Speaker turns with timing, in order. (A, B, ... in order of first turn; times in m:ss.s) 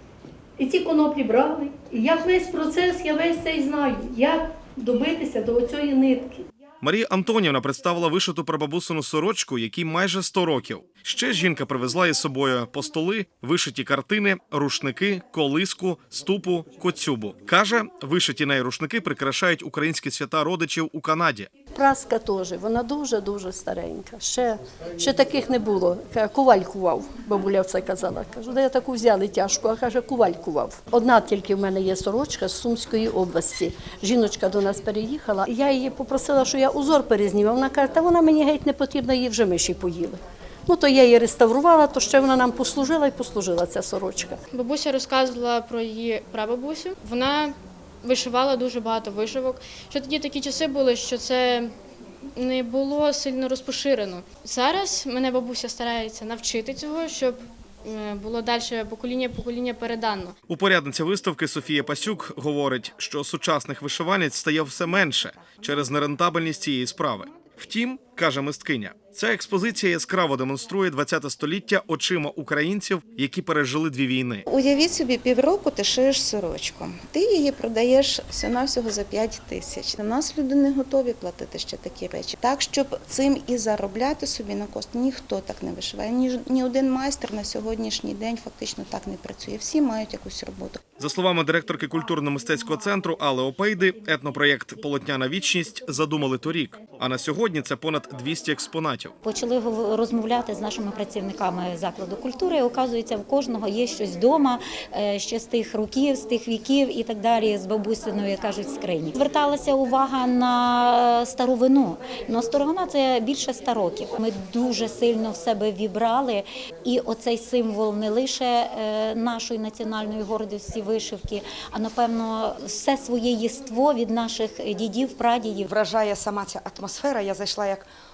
0:00.6-0:06.4 A
0:06.8-0:21.5 B
0:21.7-0:44.4 A
0:44.5-0:51.7 C
0:52.4-1:00.4 C
1:00.5-1:14.4 B
1:14.5-1:30.8 D
1:31.0-1:39.2 B
1:39.2-2:05.7 E
2:05.7-2:07.9 F